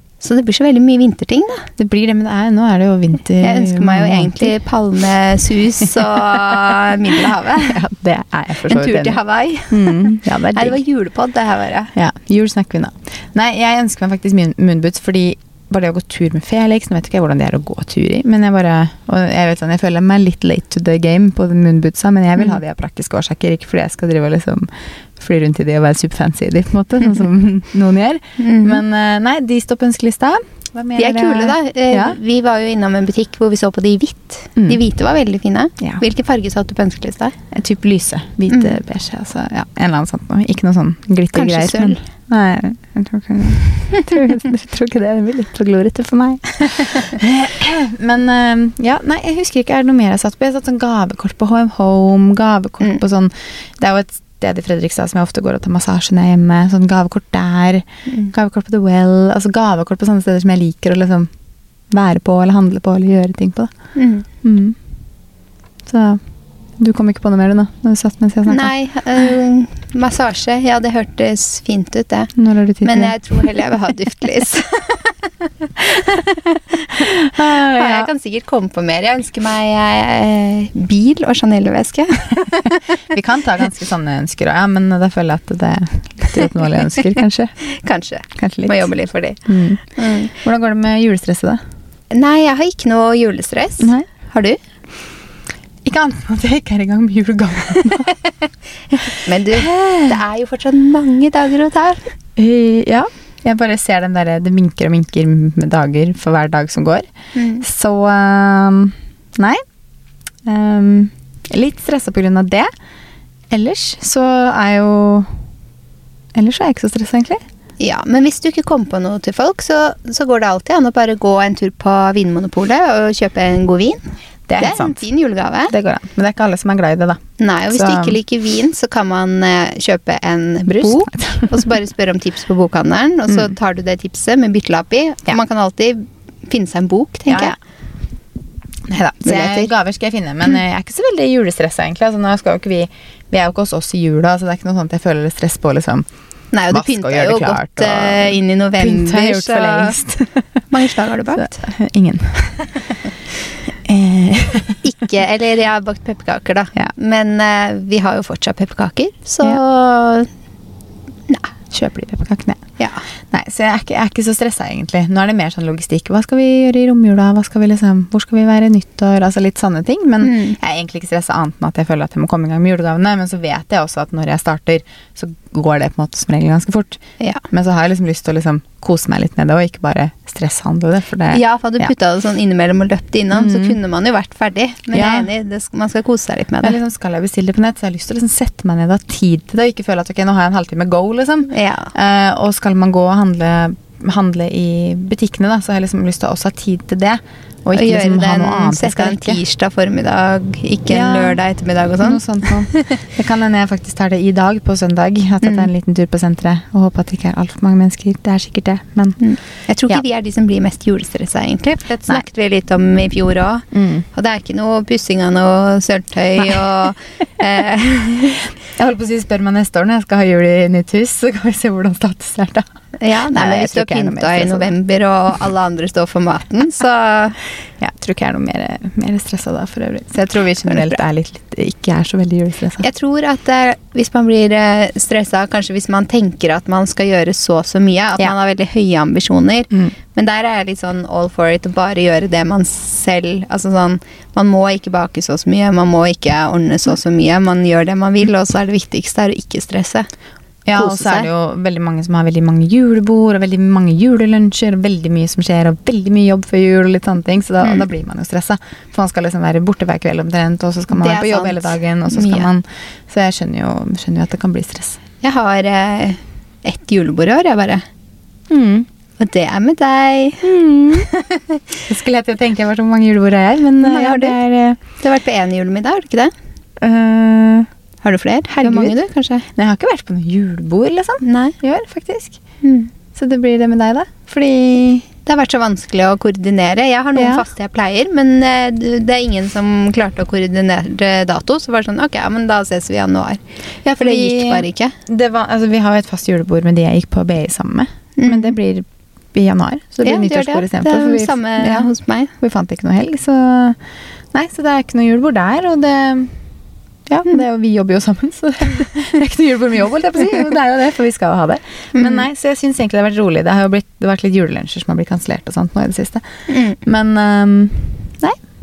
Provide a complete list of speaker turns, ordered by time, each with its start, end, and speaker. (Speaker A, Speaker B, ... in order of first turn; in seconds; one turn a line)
Speaker A: 0.2-1.7
Speaker B: 1.8-4.5
Speaker A: 3.4-7.8
Speaker B: 6.0-6.7
Speaker B: 7.6-10.8
Speaker A: 8.7-11.9
Speaker B: 11.9-32.2
Speaker A: 28.4-28.8
Speaker A: 31.0-37.3
Speaker B: 37.5-61.3
Speaker A: 38.5-38.8
Speaker A: 41.3-42.0
Speaker B: 61.9-63.7
Speaker A: 63.9-64.2
Speaker B: 64.4-64.8
Speaker B: 65.8-66.2
Speaker B: 66.8-68.7
Speaker A: 68.5-72.3
Speaker B: 72.3-73.2
Speaker A: 72.8-76.4
Speaker B: 76.9-78.1
Speaker A: 77.7-82.8
Speaker B: 83.0-87.5
Speaker A: 87.6-89.4
Speaker B: 88.3-88.9
Speaker B: 89.5-91.6
Speaker A: 90.0-90.3
Speaker A: 92.1-94.6
Speaker B: 93.8-94.1
Speaker B: 95.8-98.2
Speaker A: 98.9-102.0
Speaker B: 99.0-100.2
Speaker B: 102.4-107.1
Speaker A: 107.3-107.6
Speaker B: 107.6-109.6
Speaker B: 110.4-112.7
Speaker B: 113.5-115.3
Speaker B: 116.3-117.4
Speaker A: 117.8-124.0
Speaker B: 124.5-125.0
Speaker A: 124.6-125.7
Speaker B: 125.7-128.2
Speaker A: 127.4-137.6
Speaker B: 130.7-131.6
Speaker B: 137.3-137.6
Speaker B: 138.9-146.0
Speaker A: 139.2-139.7
Speaker A: 146.5-149.9
Speaker B: 146.7-150.6
Speaker A: 150.7-151.6
Speaker B: 151.3-152.7
Speaker B: 153.7-154.8
Speaker A: 154.8-159.7
Speaker B: 159.4-160.3
Speaker B: 161.7-162.6
Speaker B: 163.3-181.9
Speaker A: 170.2-170.6
Speaker A: 181.3-186.8
Speaker B: 183.3-183.8
Speaker B: 184.9-185.3
Speaker B: 186.6-199.4
Speaker A: 191.5-191.9
Speaker A: 197.7-203.0
Speaker B: 200.9-201.4
Speaker B: 202.0-209.2
Speaker A: 205.4-205.7
Speaker A: 209.2-218.4
Speaker B: 213.7-214.0
Speaker B: 218.7-222.6
Speaker A: 223.0-227.4
Speaker B: 223.2-224.7
Speaker B: 227.8-232.8
Speaker A: 230.7-231.0
Speaker A: 232.8-250.1
Speaker B: 250.7-265.0
Speaker A: 250.8-251.3
Speaker A: 257.6-257.9
Speaker A: 260.9-262.5
Speaker A: 265.2-267.8
Speaker B: 268.5-268.9
Speaker A: 269.2-271.8
Speaker B: 270.4-271.1
Speaker B: 271.9-274.8
Speaker A: 273.8-274.4
Speaker A: 275.0-276.3
Speaker B: 276.8-277.7
Speaker A: 278.0-279.4
Speaker B: 278.5-278.9
Speaker B: 279.6-282.4
Speaker A: 281.2-281.6
Speaker A: 282.6-282.9
Speaker B: 283.1-285.1
Speaker A: 285.2-293.4
Speaker B: 287.1-287.4
Speaker B: 293.8-303.8
Speaker A: 294.0-294.9
Speaker A: 298.2-298.6
Speaker A: 300.0-302.3
Speaker B: 304.3-306.3
Speaker B: 307.1-318.4
Speaker A: 311.9-312.2
Speaker A: 316.5-316.8